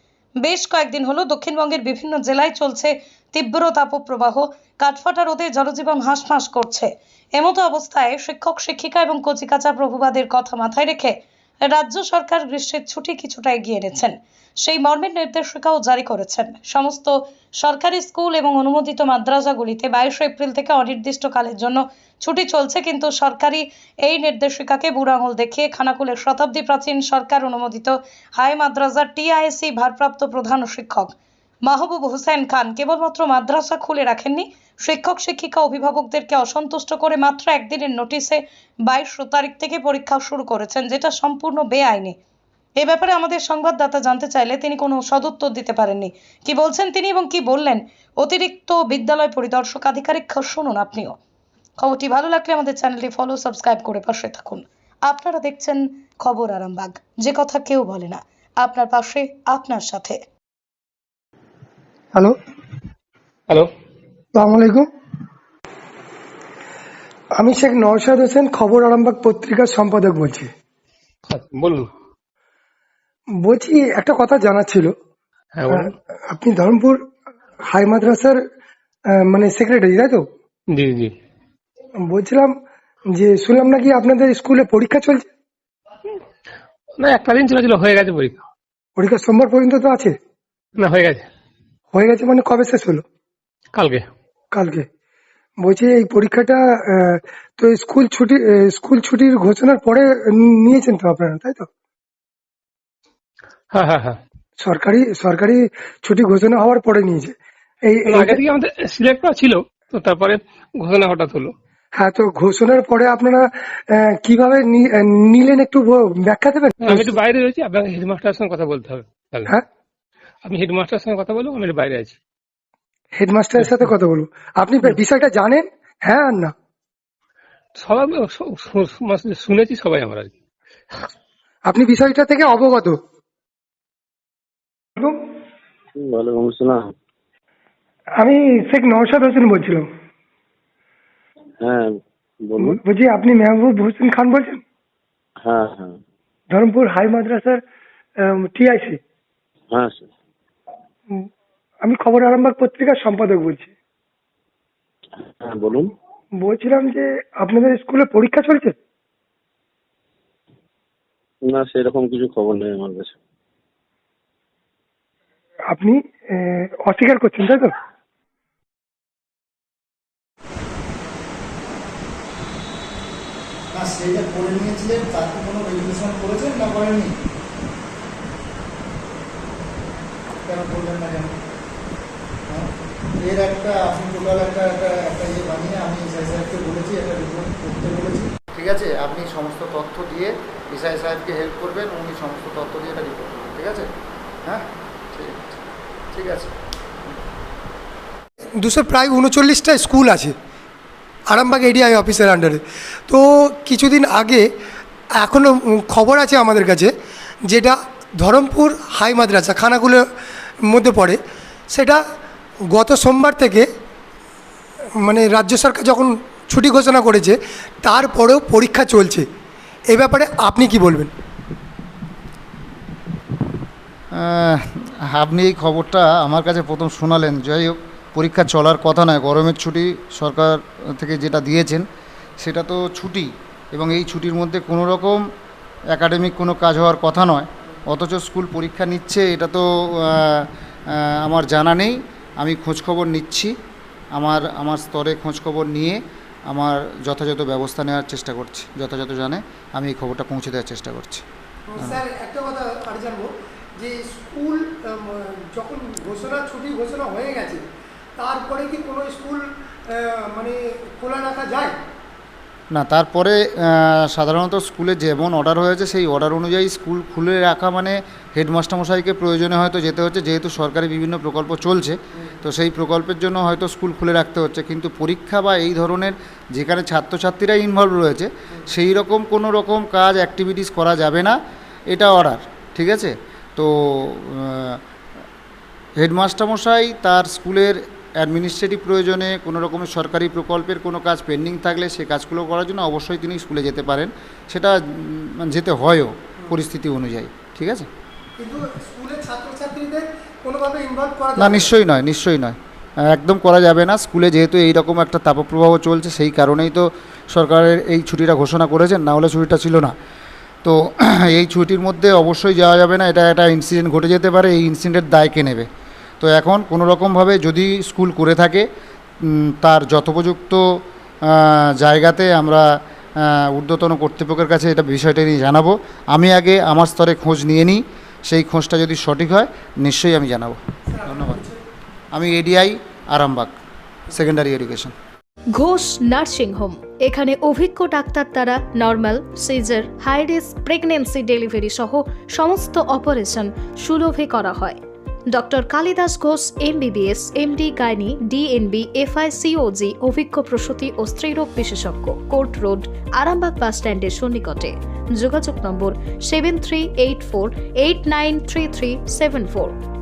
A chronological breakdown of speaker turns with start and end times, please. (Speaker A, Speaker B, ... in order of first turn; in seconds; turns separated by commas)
Speaker A: 0.4-42.1, Speaker A: 42.8-51.2, Speaker A: 51.8-60.2, Speaker B: 64.3-64.9, Speaker B: 67.4-70.5, Speaker C: 71.3-71.9, Speaker B: 73.4-74.9, Speaker C: 75.6-75.9, Speaker B: 75.7-77.0, Speaker B: 77.7-78.4, Speaker B: 79.3-80.2, Speaker C: 80.7-81.1, Speaker B: 82.1-82.5, Speaker B: 83.1-85.2, Speaker C: 87.0-88.4, Speaker B: 89.0-90.1, Speaker C: 90.8-91.2, Speaker B: 91.9-93.0, Speaker C: 93.7-94.0, Speaker B: 94.5-94.8, Speaker B: 95.6-101.7, Speaker C: 103.7-104.2, Speaker B: 104.6-107.3, Speaker B: 107.9-108.4, Speaker C: 108.0-111.5, Speaker B: 112.0-117.1, Speaker C: 116.8-119.5, Speaker C: 120.4-122.1, Speaker B: 123.1-126.5, Speaker C: 127.8-130.3, Speaker B: 131.7-133.0, Speaker D: 136.0-136.9, Speaker B: 138.2-139.8, Speaker D: 141.6-141.9, Speaker D: 142.5-142.8, Speaker B: 142.6-144.6, Speaker D: 145.4-146.0, Speaker B: 146.5-147.6, Speaker B: 148.4-149.0, Speaker D: 149.7-150.1, Speaker B: 151.8-153.7, Speaker D: 155.4-155.9, Speaker B: 156.4-158.7, Speaker D: 161.5-163.2, Speaker B: 165.7-167.7, Speaker E: 173.7-177.1, Speaker E: 180.4-181.3, Speaker E: 182.5-193.9, Speaker E: 194.4-195.6, Speaker E: 196.1-196.5, Speaker B: 198.6-200.3, Speaker B: 201.3-204.5, Speaker B: 205.2-206.9, Speaker B: 207.4-210.0, Speaker B: 210.7-211.2, Speaker B: 211.7-212.0, Speaker B: 212.7-213.7, Speaker B: 215.0-219.2, Speaker B: 219.9-221.1, Speaker E: 224.1-231.8, Speaker E: 232.4-235.2, Speaker E: 235.9-243.5, Speaker E: 244.1-246.0, Speaker E: 246.5-251.2, Speaker B: 251.7-257.6, Speaker B: 258.2-261.7, Speaker E: 262.7-281.4, Speaker E: 281.9-284.8, Speaker E: 286.0-297.9, Speaker B: 298.4-301.7, Speaker E: 301.4-309.9, Speaker E: 310.6-315.7, Speaker E: 316.2-318.6, Speaker E: 319.2-320.6, Speaker E: 321.2-322.6, Speaker E: 323.2-331.4, Speaker B: 331.0-331.5, Speaker E: 332.1-333.5, Speaker E: 334.1-334.9, Speaker F: 335.5-344.8, Speaker F: 345.3-359.7